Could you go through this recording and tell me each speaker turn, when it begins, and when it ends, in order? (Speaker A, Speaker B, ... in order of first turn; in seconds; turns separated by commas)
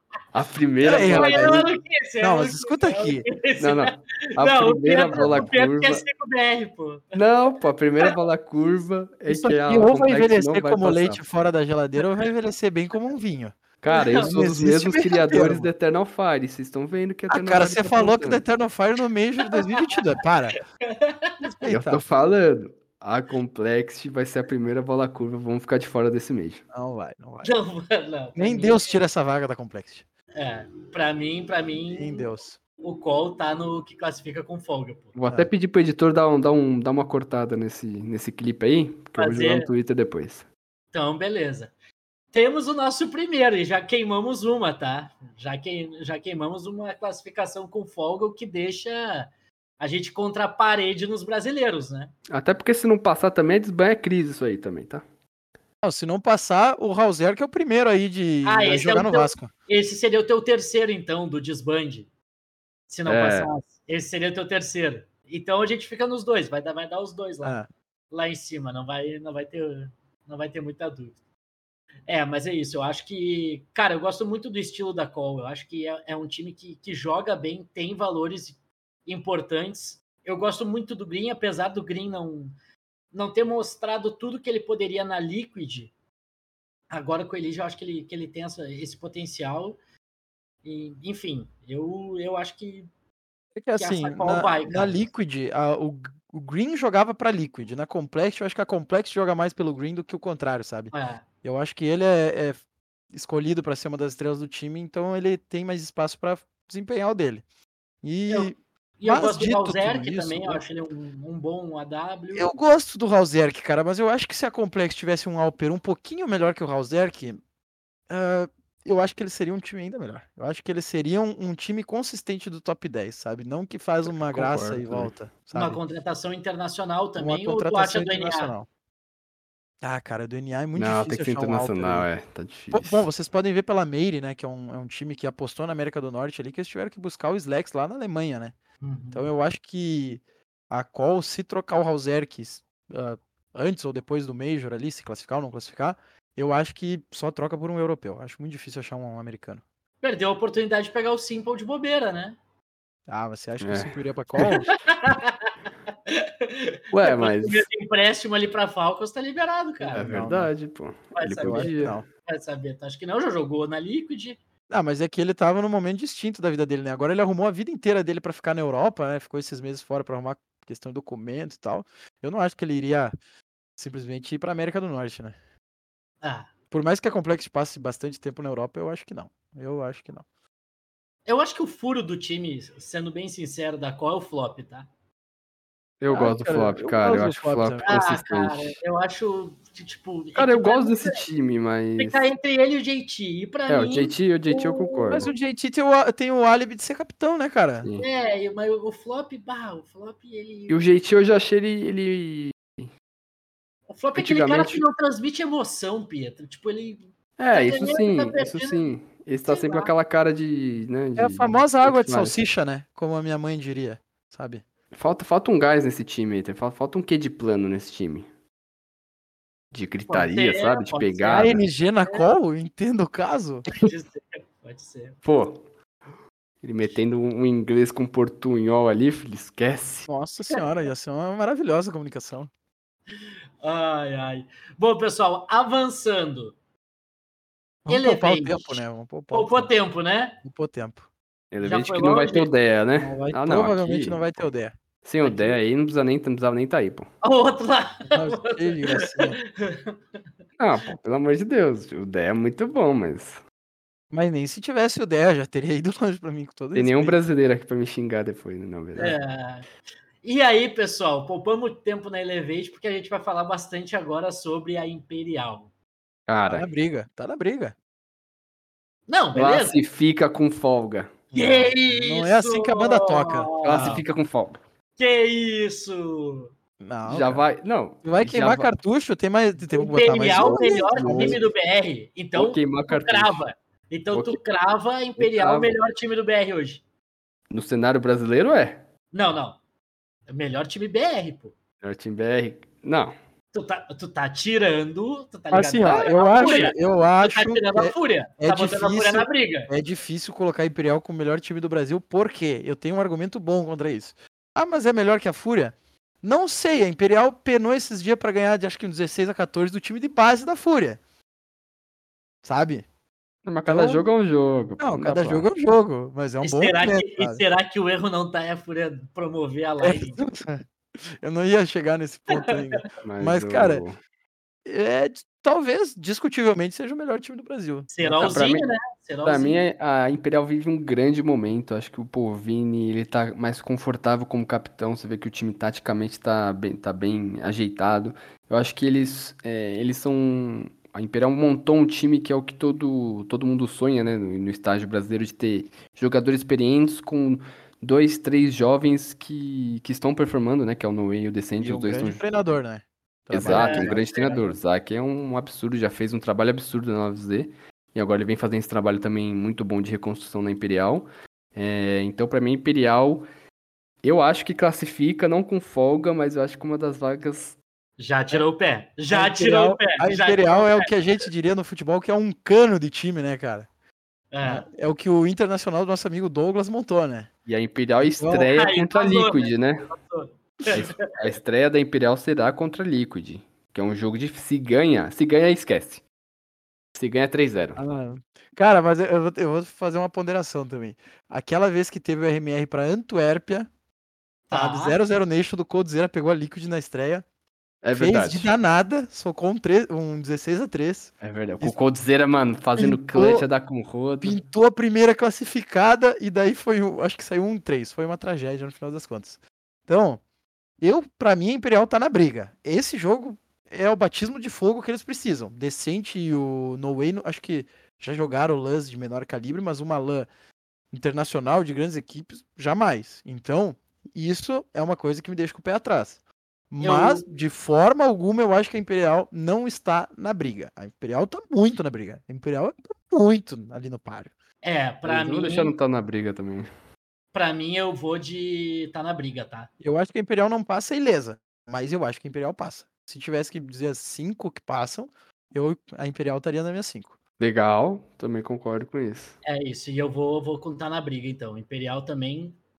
Speaker A: 0.3-1.7, Speaker B: 0.8-7.2, Speaker C: 0.8-1.7, Speaker C: 2.2-3.3, Speaker A: 3.6-6.0, Speaker C: 5.1-5.5, Speaker A: 7.1-11.2, Speaker C: 9.3-13.6, Speaker A: 13.8-18.4, Speaker B: 13.9-14.3, Speaker C: 14.2-15.7, Speaker C: 17.3-20.6, Speaker B: 19.5-19.8, Speaker B: 20.9-21.5, Speaker C: 21.4-22.0, Speaker A: 21.7-26.6, Speaker C: 26.7-27.5, Speaker B: 27.4-29.0, Speaker C: 28.4-30.0, Speaker B: 30.4-32.3, Speaker C: 31.9-32.6, Speaker B: 32.8-35.1, Speaker A: 35.1-40.5, Speaker B: 39.2-39.7, Speaker B: 40.9-41.7, Speaker B: 42.3-52.1, Speaker A: 52.3-55.0, Speaker C: 55.8-59.5, Speaker B: 58.4-62.1, Speaker B: 62.9-67.6, Speaker A: 63.1-63.5, Speaker B: 68.1-71.2, Speaker B: 72.1-82.5, Speaker B: 83.1-85.9, Speaker B: 86.9-89.8, Speaker B: 90.6-92.9, Speaker C: 93.6-102.6, Speaker B: 93.8-95.0, Speaker B: 100.9-101.2, Speaker C: 103.1-107.4, Speaker C: 108.0-110.6, Speaker B: 108.3-112.5, Speaker C: 112.3-117.4, Speaker C: 118.1-125.8, Speaker A: 124.2-125.1, Speaker B: 125.5-128.5, Speaker C: 127.2-128.7, Speaker C: 129.8-132.1, Speaker A: 130.8-133.1, Speaker C: 132.7-138.6, Speaker B: 138.8-139.3, Speaker C: 139.1-149.6, Speaker B: 150.0-152.4, Speaker C: 153.1-154.7, Speaker A: 153.6-153.9, Speaker B: 154.8-155.5, Speaker B: 156.1-160.1, Speaker A: 156.9-157.7, Speaker C: 159.8-160.5, Speaker A: 159.9-162.0, Speaker B: 161.2-164.4, Speaker C: 161.4-162.0, Speaker C: 164.7-173.1, Speaker C: 173.8-175.4, Speaker B: 176.2-176.5, Speaker C: 176.7-180.2, Speaker B: 181.3-184.9, Speaker A: 186.0-188.8, Speaker C: 186.1-187.9, Speaker B: 187.8-191.2, Speaker A: 190.3-192.3, Speaker B: 192.0-195.2, Speaker A: 193.7-195.3, Speaker C: 195.1-197.9, Speaker B: 198.0-200.8, Speaker A: 200.7-202.9, Speaker B: 203.9-208.9, Speaker A: 204.2-204.8, Speaker A: 207.4-212.4, Speaker B: 209.5-209.9, Speaker C: 211.2-214.7, Speaker A: 214.9-218.3, Speaker A: 219.7-221.6, Speaker B: 220.1-222.3, Speaker C: 221.3-223.7, Speaker B: 223.8-225.2, Speaker A: 225.2-225.6, Speaker A: 226.6-230.1, Speaker C: 230.1-232.5, Speaker B: 233.6-236.6, Speaker C: 237.9-239.7, Speaker B: 237.9-240.4, Speaker C: 240.4-241.1, Speaker A: 241.5-244.4, Speaker B: 241.6-242.5, Speaker C: 243.0-244.8, Speaker A: 245.0-247.1, Speaker B: 245.2-245.6, Speaker B: 247.2-250.0, Speaker C: 248.1-249.4, Speaker A: 250.6-253.4, Speaker C: 254.1-257.2, Speaker A: 256.8-259.2, Speaker B: 259.0-259.7, Speaker B: 260.2-265.7, Speaker A: 266.3-266.7, Speaker C: 266.5-267.8, Speaker B: 269.1-269.8, Speaker A: 269.4-271.2, Speaker C: 271.3-273.5, Speaker B: 271.3-274.0, Speaker A: 273.6-274.6, Speaker B: 275.0-276.5, Speaker C: 276.8-277.4, Speaker A: 277.1-278.7, Speaker C: 278.0-281.4, Speaker B: 279.7-286.8, Speaker A: 280.4-281.4, Speaker A: 282.4-283.4, Speaker A: 284.1-284.4, Speaker A: 285.2-285.8, Speaker A: 287.5-288.9, Speaker B: 289.1-289.6, Speaker B: 290.3-291.6, Speaker A: 291.8-293.1, Speaker B: 293.5-299.7, Speaker C: 295.5-311.0, Speaker C: 312.4-312.9, Speaker A: 313.4-315.5, Speaker C: 313.7-314.1, Speaker C: 314.8-317.4, Speaker B: 316.4-320.2, Speaker C: 319.8-320.6, Speaker C: 321.2-323.8, Speaker A: 323.0-324.0, Speaker C: 324.6-328.4, Speaker B: 327.9-329.6, Speaker A: 328.2-328.7, Speaker A: 329.2-352.2, Speaker C: 351.6-354.4, Speaker A: 353.3-363.3, Speaker B: 353.4-354.4, Speaker A: 364.0-367.6, Speaker B: 368.0-370.9, Speaker C: 369.1-373.7, Speaker B: 374.3-374.7, Speaker C: 374.4-377.3, Speaker A: 377.5-379.9, Speaker C: 378.0-378.5, Speaker B: 378.5-381.0, Speaker A: 380.7-386.0, Speaker A: 387.0-387.8, Speaker C: 387.8-393.7, Speaker B: 394.5-395.0, Speaker C: 394.5-397.2, Speaker A: 397.8-398.5, Speaker C: 397.9-401.8, Speaker A: 401.2-404.4, Speaker C: 402.8-403.5, Speaker C: 404.2-410.2, Speaker C: 410.8-420.3, Speaker C: 420.9-426.2, Speaker C: 426.7-434.3, Speaker B: 426.8-427.2, Speaker B: 434.6-435.7, Speaker A: 435.1-436.7, Speaker B: 437.3-439.7, Speaker C: 439.8-447.2, Speaker A: 447.4-449.4, Speaker B: 449.4-452.6